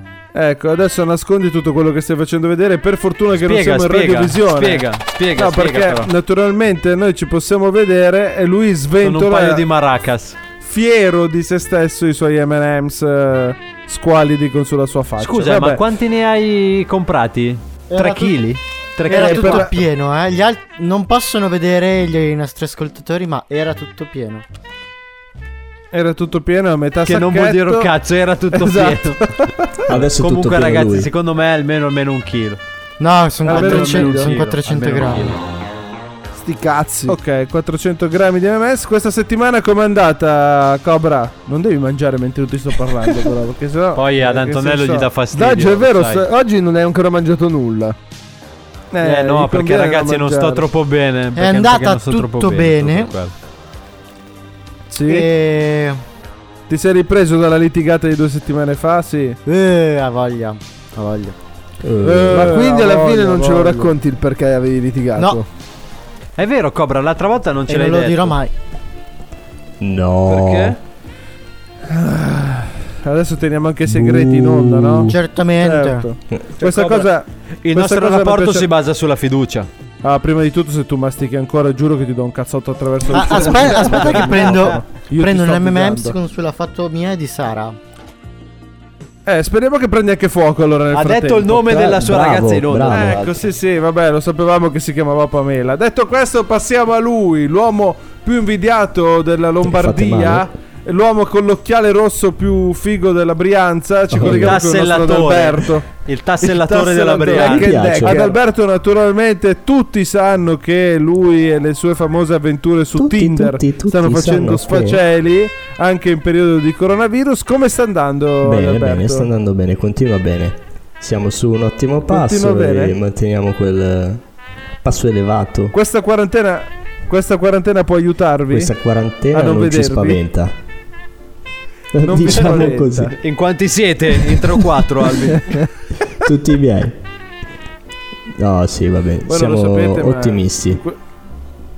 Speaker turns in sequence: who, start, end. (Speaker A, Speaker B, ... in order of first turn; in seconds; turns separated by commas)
Speaker A: 0.3-9.6, Speaker B: 3.4-6.1, Speaker B: 9.0-10.4, Speaker A: 10.6-15.8, Speaker B: 15.2-19.7, Speaker C: 17.9-18.4, Speaker C: 19.1-24.4, Speaker A: 19.1-19.8, Speaker A: 25.9-27.9, Speaker B: 27.0-29.2, Speaker A: 28.5-29.9, Speaker D: 29.9-31.1, Speaker B: 30.2-32.6, Speaker C: 33.0-35.3, Speaker A: 33.5-34.4, Speaker B: 33.5-35.4, Speaker E: 36.3-37.2, Speaker A: 37.1-45.1, Speaker B: 44.0-46.2, Speaker E: 45.3-48.0, Speaker A: 48.9-50.6, Speaker B: 49.0-53.3, Speaker C: 51.4-53.1, Speaker A: 54.9-55.3, Speaker C: 55.1-56.0, Speaker A: 56.7-59.4, Speaker C: 59.5-61.4, Speaker D: 61.8-62.6, Speaker A: 62.0-63.9, Speaker E: 62.3-65.5, Speaker C: 65.2-65.4, Speaker B: 66.4-68.4, Speaker C: 67.7-68.5, Speaker D: 69.8-70.8, Speaker A: 70.3-70.8, Speaker A: 71.9-78.7, Speaker D: 73.9-75.1, Speaker C: 75.1-76.1, Speaker B: 76.6-77.1, Speaker B: 77.7-79.7, Speaker A: 80.0-86.2, Speaker C: 83.1-87.8, Speaker A: 89.2-91.7, Speaker B: 90.9-93.3, Speaker D: 91.6-93.4, Speaker A: 92.9-105.8, Speaker D: 99.6-100.5, Speaker D: 104.1-104.6, Speaker B: 104.2-107.7, Speaker A: 106.4-119.3, Speaker D: 107.4-108.3, Speaker E: 107.4-108.4, Speaker D: 113.0-115.0, Speaker D: 118.4-124.2, Speaker A: 122.1-123.0, Speaker D: 124.8-125.8, Speaker A: 125.7-128.7, Speaker D: 128.5-130.5, Speaker A: 129.3-130.2, Speaker D: 131.9-133.2, Speaker A: 132.0-133.2, Speaker B: 132.3-132.6, Speaker B: 133.2-135.6, Speaker D: 136.3-137.0, Speaker D: 138.4-140.8, Speaker A: 139.3-141.0